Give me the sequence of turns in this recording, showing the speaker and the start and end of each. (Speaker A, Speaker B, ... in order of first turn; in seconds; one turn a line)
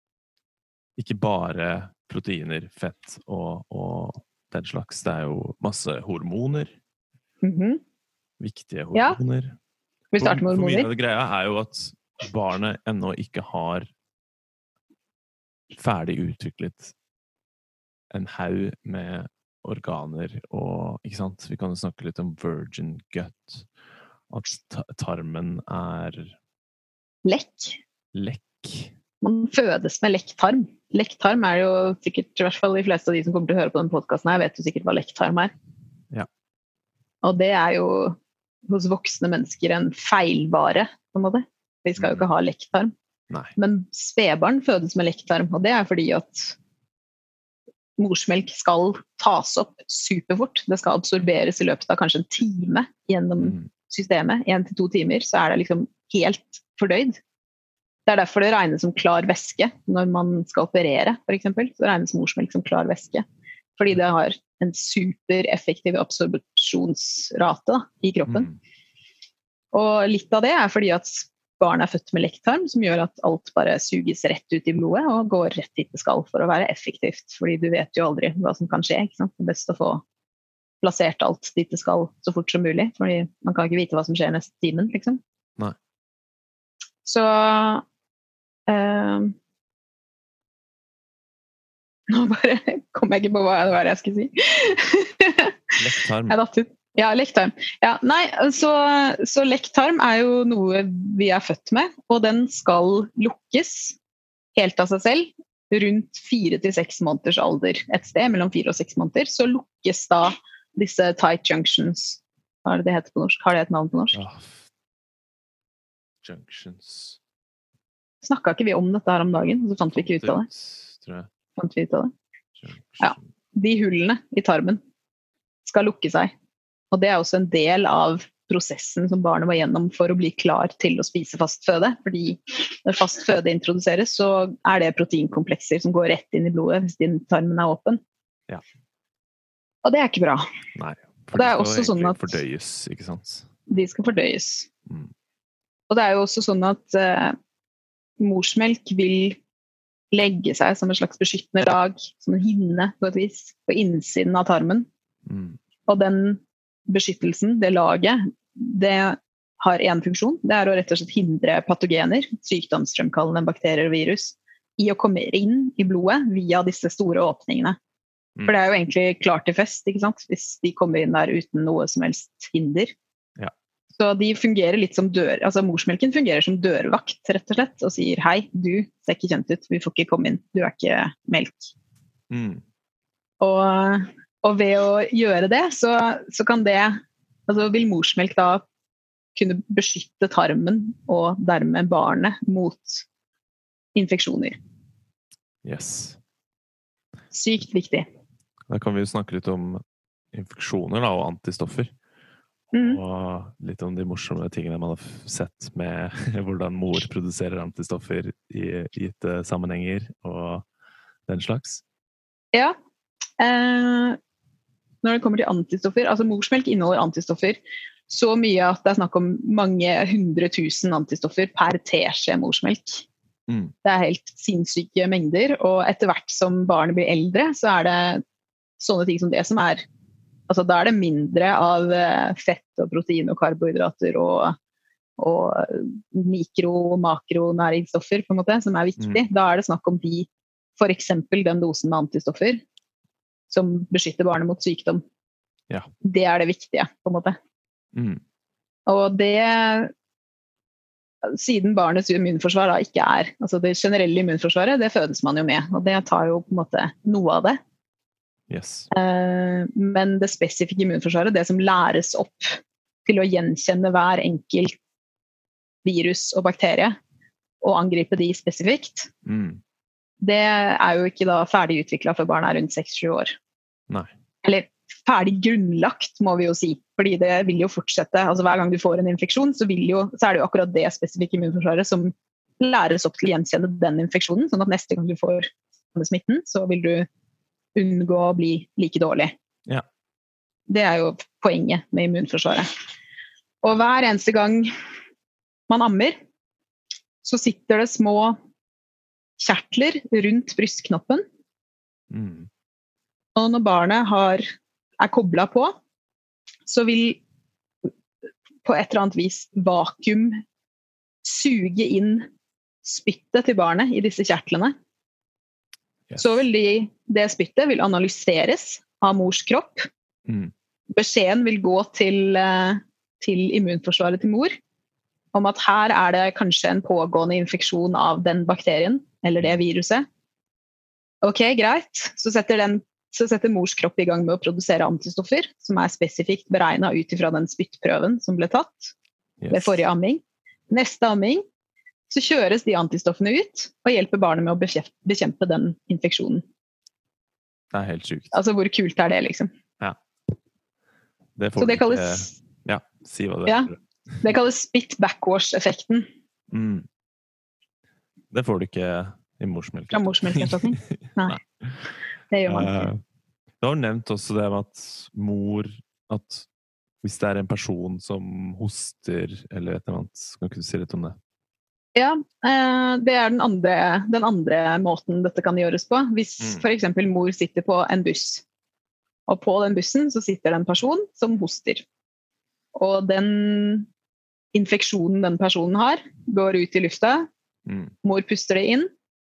Speaker A: 1.0-6.8
Speaker B: 7.4-7.8
Speaker A: 8.4-9.6
Speaker B: 8.9-9.2
Speaker B: 10.1-10.9
Speaker A: 10.2-13.9
Speaker A: 15.7-16.9
Speaker A: 18.1-23.7
Speaker A: 24.3-26.3
Speaker B: 27.2-27.8
Speaker A: 28.1-28.9
Speaker B: 29.2-35.5
Speaker B: 37.2-42.9
Speaker A: 42.0-42.2
Speaker B: 43.5-46.5
Speaker B: 48.0-57.2
Speaker A: 53.4-53.7
Speaker B: 58.0-63.2
Speaker B: 63.8-68.5
Speaker A: 68.3-68.6
Speaker B: 69.7-80.0
Speaker B: 80.8-85.2
Speaker B: 87.0-87.8
Speaker B: 88.7-89.3
Speaker B: 92.1-95.5
Speaker A: 95.8-96.4
Speaker B: 96.3-104.0
Speaker B: 104.5-114.2
Speaker A: 114.1-114.7
Speaker A: 116.2-117.2
Speaker B: 118.2-120.5
Speaker A: 119.9-121.3
Speaker B: 121.5-122.1
Speaker A: 122.6-123.2
Speaker B: 123.0-124.8
Speaker B: 125.6-126.3
Speaker B: 126.9-138.0
Speaker B: 139.8-140.4
Speaker A: 140.7-143.5
Speaker B: 141.3-142.3
Speaker B: 143.7-144.7
Speaker B: 145.9-147.3
Speaker B: 148.2-149.4
Speaker B: 150.1-154.9
Speaker A: 155.2-155.6
Speaker B: 155.9-167.8
Speaker B: 168.4-172.9
Speaker B: 173.9-181.7
Speaker A: 182.3-182.6
Speaker B: 183.4-188.6
Speaker B: 189.3-193.0
Speaker B: 193.9-194.6
Speaker A: 195.6-196.2
Speaker B: 197.3-198.1
Speaker A: 198.7-201.9
Speaker B: 202.7-203.0
Speaker A: 202.7-210.7
Speaker A: 211.3-211.8
Speaker B: 213.4-214.2
Speaker B: 215.0-223.1
Speaker A: 223.5-223.7
Speaker B: 223.8-228.2
Speaker B: 228.8-229.8
Speaker B: 230.5-234.6
Speaker B: 235.2-242.6
Speaker A: 239.0-239.2
Speaker B: 243.5-245.0
Speaker B: 246.0-247.4
Speaker A: 247.9-248.2
Speaker B: 248.9-249.9
Speaker B: 251.2-257.6
Speaker A: 258.5-258.9
Speaker B: 258.9-264.8
Speaker B: 265.8-266.9
Speaker B: 267.6-269.1
Speaker A: 269.2-269.6
Speaker B: 270.2-273.4
Speaker B: 274.4-287.1
Speaker B: 287.7-289.3
Speaker B: 290.7-292.7
Speaker B: 293.6-294.7
Speaker B: 295.7-296.1
Speaker B: 297.2-298.4
Speaker B: 299.4-301.2
Speaker A: 302.1-302.5
Speaker B: 303.3-304.4
Speaker B: 305.0-305.7
Speaker B: 306.6-307.2
Speaker B: 308.6-310.4
Speaker B: 311.2-312.3
Speaker B: 312.8-314.7
Speaker B: 316.2-319.9
Speaker A: 320.3-320.5
Speaker B: 320.9-324.5
Speaker B: 325.3-330.1
Speaker B: 331.2-338.9
Speaker A: 339.4-339.8
Speaker B: 339.5-341.4
Speaker B: 342.1-346.4
Speaker A: 347.7-348.4
Speaker B: 348.3-349.5
Speaker A: 351.4-353.8
Speaker B: 351.6-352.3
Speaker B: 353.4-356.1
Speaker A: 356.5-356.9
Speaker A: 358.3-361.9
Speaker B: 359.9-361.4
Speaker B: 362.3-362.9
Speaker A: 362.5-363.0
Speaker A: 363.6-366.5
Speaker A: 367.0-371.2
Speaker B: 371.9-378.4
Speaker B: 379.3-381.8
Speaker B: 382.7-383.9
Speaker B: 384.5-387.3
Speaker A: 387.6-387.9
Speaker B: 388.0-388.9